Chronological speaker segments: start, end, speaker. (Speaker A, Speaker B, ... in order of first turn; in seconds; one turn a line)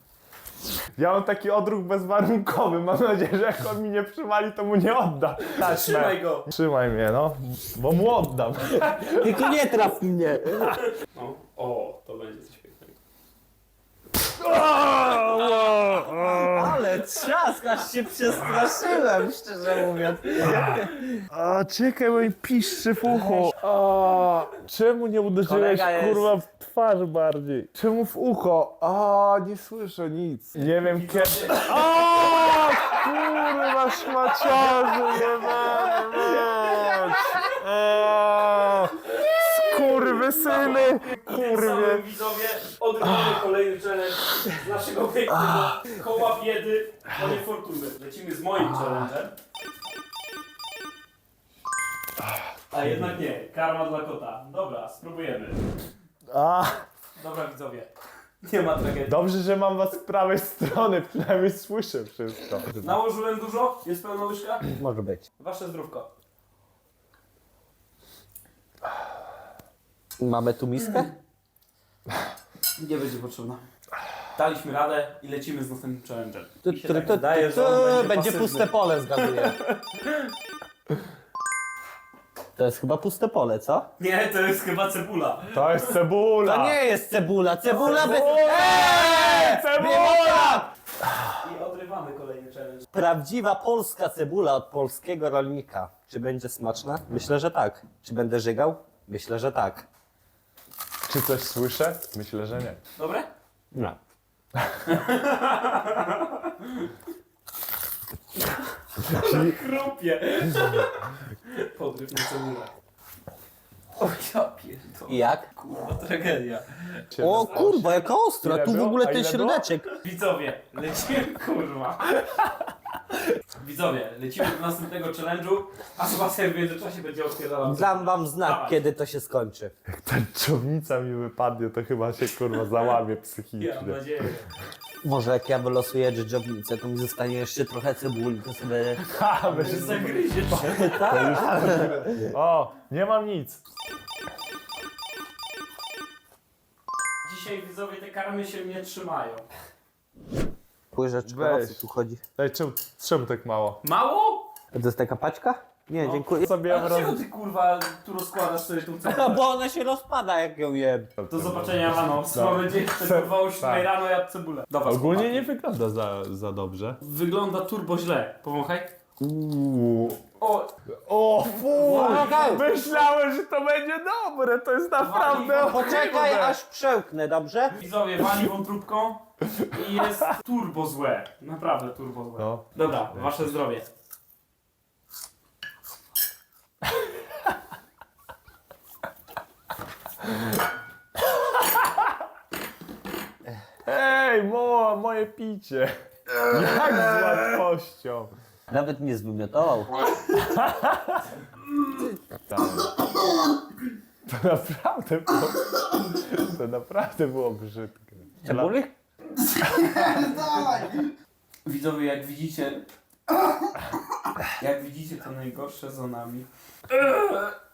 Speaker A: 1.0-9.4
Speaker B: 5.6-6.5
Speaker C: 9.1-10.8
Speaker B: 11.1-12.9
Speaker A: 14.2-16.9
Speaker C: 16.0-21.2
Speaker A: 20.4-42.0
Speaker C: 25.4-26.3
Speaker B: 30.8-33.4
Speaker B: 34.4-37.6
Speaker B: 39.1-49.4
Speaker B: 52.7-55.6
Speaker A: 56.3-56.9
Speaker B: 57.1-57.9
Speaker B: 58.4-59.2
Speaker A: 59.1-62.7
Speaker B: 62.8-64.7
Speaker C: 64.8-65.2
Speaker B: 65.4-66.1
Speaker C: 70.2-71.1
Speaker B: 72.8-73.6
Speaker B: 74.4-80.3
Speaker C: 76.6-79.6
Speaker C: 82.6-83.9
Speaker B: 84.0-85.9
Speaker A: 85.5-86.8
Speaker C: 86.4-90.7
Speaker B: 87.7-88.5
Speaker A: 87.8-91.4
Speaker B: 91.4-92.9
Speaker C: 92.9-99.8
Speaker A: 101.1-102.8
Speaker B: 103.0-103.3
Speaker A: 104.5-104.8
Speaker B: 104.9-106.9
Speaker A: 109.1-109.6
Speaker B: 109.1-112.7
Speaker B: 114.0-117.0
Speaker C: 115.1-115.5
Speaker A: 117.1-119.7
Speaker C: 117.2-119.9
Speaker B: 120.0-122.2
Speaker B: 123.6-128.8
Speaker C: 127.6-129.7
Speaker A: 129.9-134.0
Speaker B: 133.6-134.5
Speaker C: 135.0-142.3
Speaker A: 139.0-143.6
Speaker B: 139.6-141.5
Speaker B: 147.2-149.5
Speaker C: 150.9-152.2
Speaker A: 151.2-151.8
Speaker A: 152.4-153.8
Speaker B: 153.8-154.5
Speaker C: 154.7-156.5
Speaker B: 156.0-159.4
Speaker A: 156.4-157.2
Speaker C: 159.0-161.1
Speaker A: 161.2-163.9
Speaker B: 161.3-165.5
Speaker A: 164.8-167.0
Speaker B: 167.0-168.9
Speaker A: 169.2-170.2
Speaker B: 170.4-170.7
Speaker A: 170.9-176.6
Speaker B: 171.8-172.9
Speaker C: 171.8-172.6
Speaker B: 175.0-176.3
Speaker C: 175.6-177.8
Speaker B: 177.8-183.9
Speaker A: 182.4-183.6
Speaker A: 190.2-190.6
Speaker A: 191.3-192.1
Speaker A: 193.8-198.3
Speaker C: 198.7-199.9
Speaker A: 200.3-201.3
Speaker A: 202.5-203.0
Speaker A: 204.2-208.7
Speaker C: 208.4-208.9
Speaker B: 209.5-210.8
Speaker C: 210.0-210.9
Speaker B: 211.7-212.9
Speaker B: 214.6-217.5